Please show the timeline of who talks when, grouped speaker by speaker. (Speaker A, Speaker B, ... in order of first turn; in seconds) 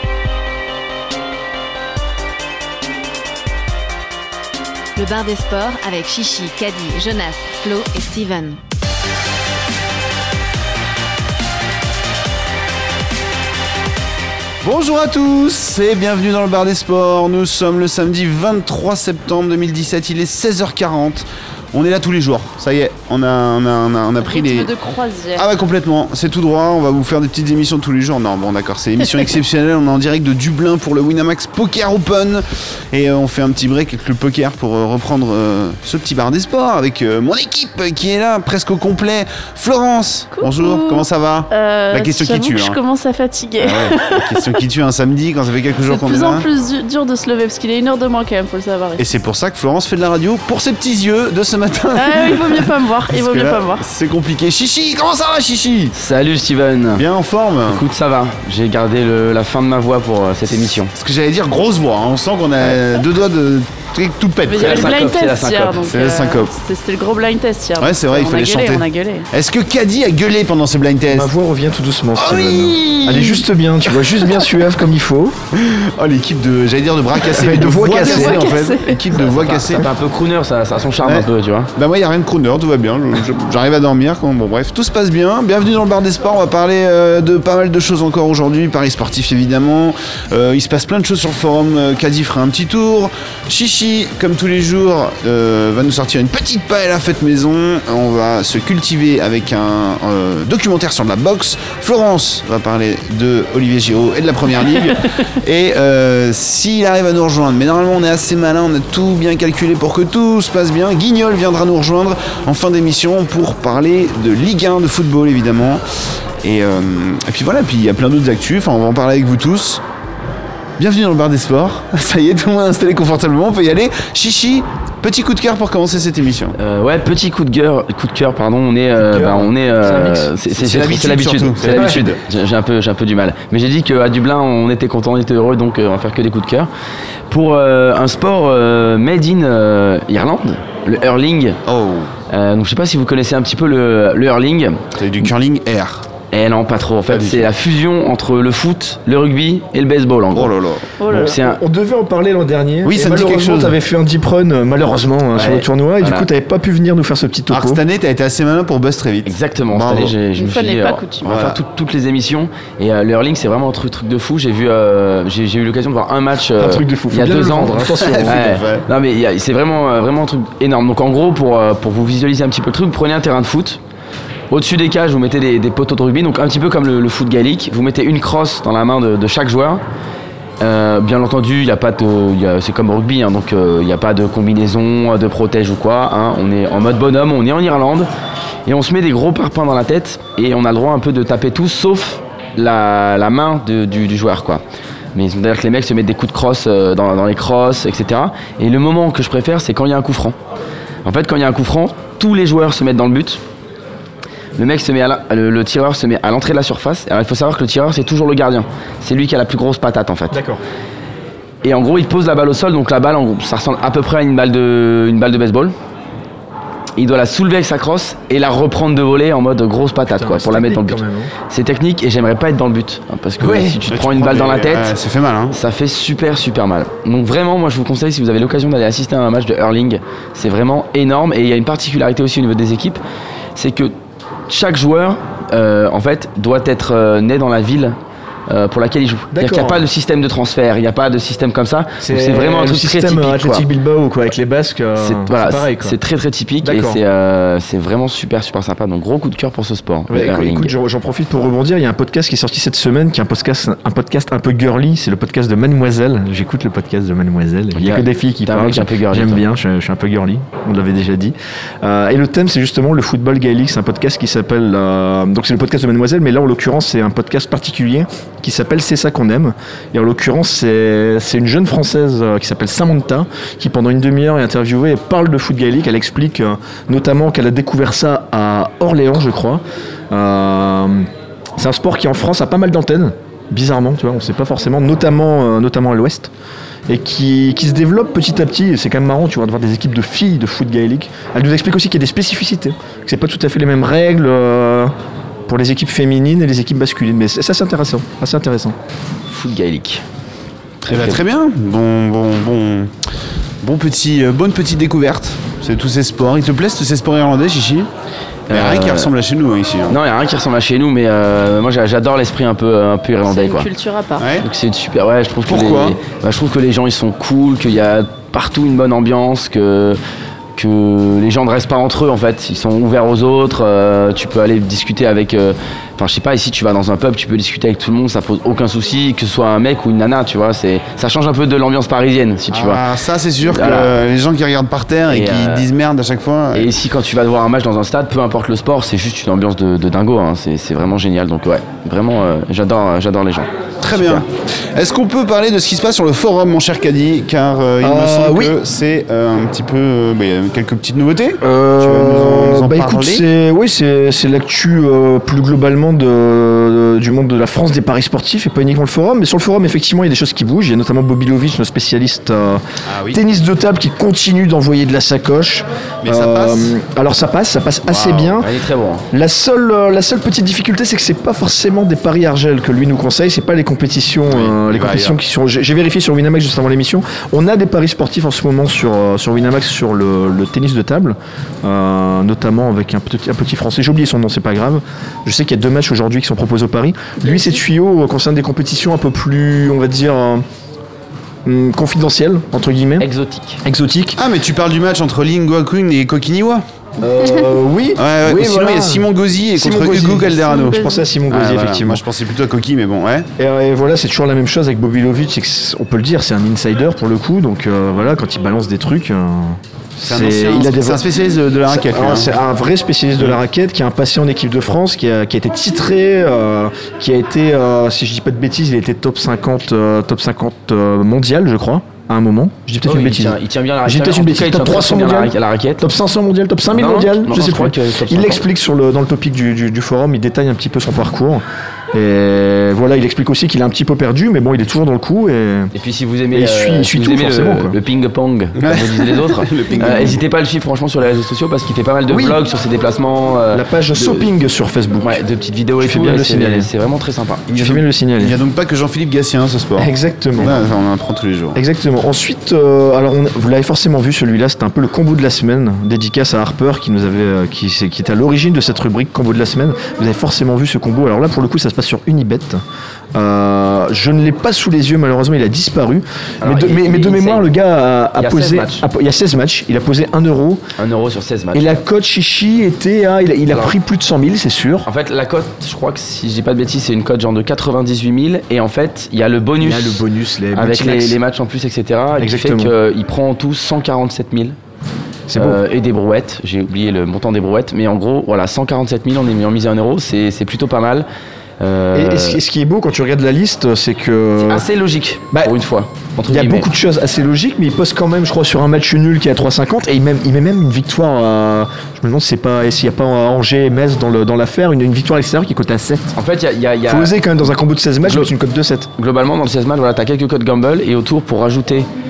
Speaker A: 5.0-8.6
Speaker B: 14.6-24.7, 25.4-42.8, 43.6-46.5, 49.0-55.9, 57.0-57.8, 60.5-65.0, 65.8-66.5, 67.8-71.3, 72.2-73.4, 75.5-79.8, 81.0-115.8, 116.4-119.8, 120.8-126.5, 130.5-132.2, 141.7-142.1, 145.0-146.1, 147.1-147.4, 150.3-150.9, 152.8-153.7, 157.5-160.1, 161.2-161.6, 167.8-168.8, 223.9-225.6, 300.9-302.9, 303.6-307.9, 308.5-310.0, 314.2-314.4, 315.5-316.0, 332.5-336.7, 343.8-353.2, 362.9-363.2, 366.0-366.7, 367.9-368.3, 374.3-375.2, 394.1-396.6, 398.0-403.3, 410.0-412.4, 438.6-440.2, 447.5-451.6
Speaker C: 24.2-25.5, 40.3-44.5, 45.8-49.0, 51.9-53.8, 64.4-69.3, 77.9-79.0, 151.0-151.4, 160.4-161.3, 313.2-314.3, 400.5-401.0
Speaker D: 55.9-57.0, 57.7-60.9, 64.5-65.8, 79.1-81.7, 126.6-136.7, 137.3-141.6, 142.3-144.8, 146.3-150.5, 151.1-151.6, 155.3-156.3, 159.2-173.8, 174.5-179.8, 180.6-188.1, 188.7-194.6, 195.1-200.4, 201.0-203.4, 204.6-210.4, 211.6-215.7, 217.0-224.9, 225.5-233.0, 233.6-233.9, 234.5-238.0, 238.5-243.6, 245.0-250.7, 257.7-259.4, 299.3-300.0, 300.8-301.2, 308.5-309.1, 309.9-313.7, 314.4-320.0, 320.6-332.8, 333.4-333.9, 335.1-335.7, 336.5-344.2, 368.4-369.1, 393.0-393.6, 422.8-425.8, 426.7-428.4, 435.7-444.3, 445.0-447.4, 466.4-467.5, 468.2-468.8, 470.8-471.8, 473.5-473.7, 474.8-484.6, 485.4-491.1, 491.6-492.4, 494.4-496.7, 506.1-507.2, 508.0-508.3, 509.0-511.9
Speaker E: 71.1-75.3, 77.3-78.4, 129.0-130.3, 131.7-132.0, 151.1-157.8, 166.6-168.5, 210.3-210.6, 220.1-221.3, 223.4-223.8, 239.3-239.8, 242.0-246.0, 246.6-247.0, 250.1-286.3, 286.9-294.9, 295.5-298.8, 347.8-348.5, 351.4-368.5, 369.1-390.4, 391.4-393.1, 393.6-394.2, 397.0-402.0, 403.4-411.0, 411.7-435.7, 436.3-437.8, 442.1-442.4, 443.5-445.2, 445.8-446.7, 447.5-448.4, 449.8-450.6, 451.5-462.6, 463.1-470.6, 471.5-474.9, 479.6-481.2, 482.2-482.7, 485.3-485.6, 491.9-494.7, 496.3-506.2, 506.9-508.9